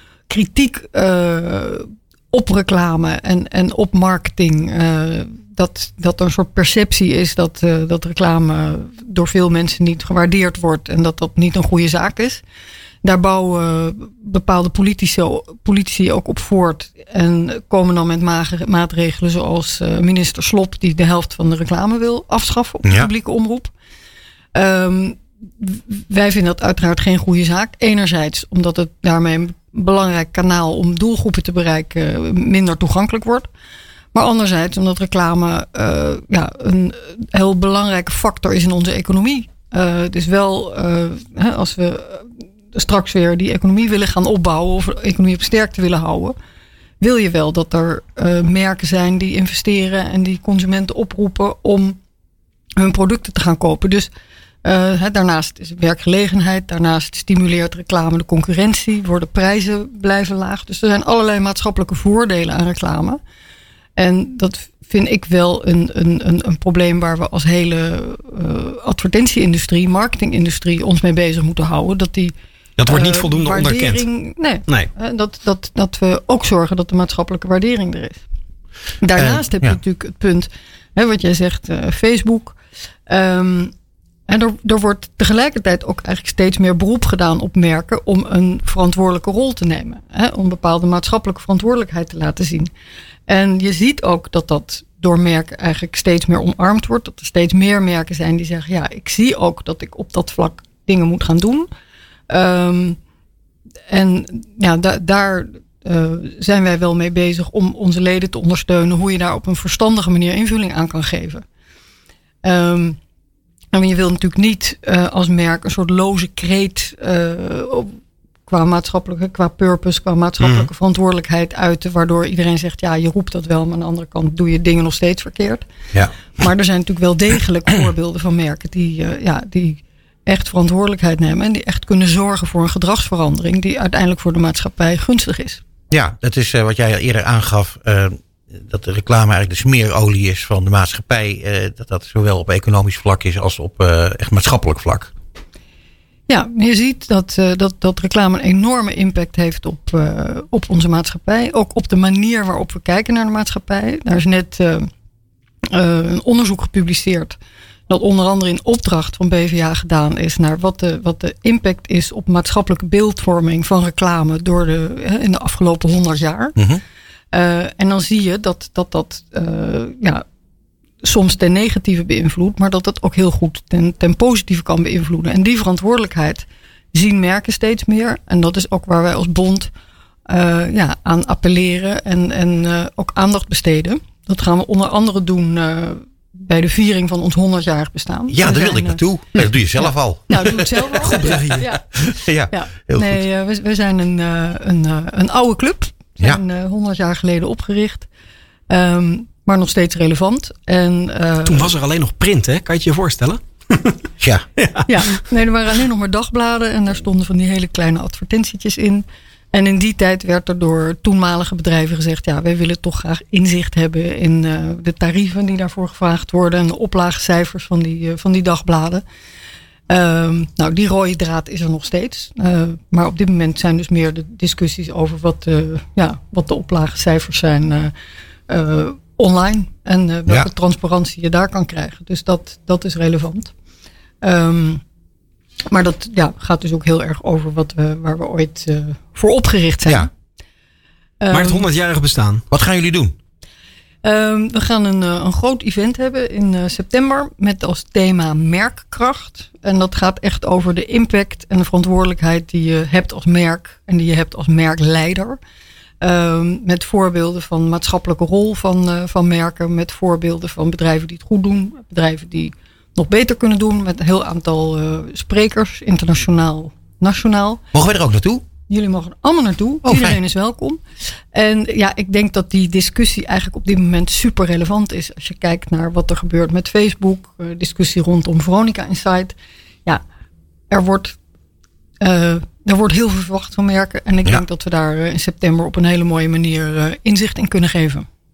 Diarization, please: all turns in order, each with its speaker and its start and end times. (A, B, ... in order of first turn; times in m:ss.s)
0:00.3-0:12.4 A
0:13.0-0:23.7 A
0:22.8-0:23.1 B
0:24.5-0:33.5 A
0:34.1-0:46.4 A
0:47.0-0:52.0 A
0:52.8-0:54.1 A
0:54.6-1:03.2 A
1:04.0-1:12.3 A
1:12.8-1:14.0 C
1:12.9-1:18.2 A
1:19.0-1:23.7 A
1:19.2-1:19.8 B
1:24.3-1:32.7 A
1:33.3-1:41.7 A
1:42.3-1:43.0 A
1:43.9-1:51.4 A
1:52.4-1:53.0 A
1:53.7-1:57.9 A
1:58.5-2:05.6 A
2:06.4-2:15.6 A
2:15.9-2:25.1 B
2:26.3-2:34.9 A
2:35.7-2:37.4 A
2:37.9-2:46.6 A
2:47.3-2:50.2 A
2:51.0-2:59.7 A
3:00.3-3:09.0 A
3:08.3-3:11.6 B
3:09.8-3:11.8 A
3:10.3-3:11.7 C
3:12.2-3:13.2 B
3:12.5-3:18.1 A
3:18.7-3:21.7 A
3:21.4-3:24.0 C
3:24.2-3:24.5 B
3:24.6-3:25.2 C
3:24.9-3:39.0 A
3:39.9-3:47.9 A
3:48.5-3:53.5 A
3:54.2-3:54.8 A
3:55.7-4:00.1 A
4:01.2-4:01.7 A
4:01.3-4:02.4 C
4:02.5-4:03.2 B
4:04.0-4:15.4 A
4:16.0-4:27.6 A
4:27.7-4:28.4 B
4:28.7-4:30.8 A
4:29.8-4:30.2 B
4:31.3-4:39.3 A
4:40.7-4:41.2 A
4:42.0-4:48.1 A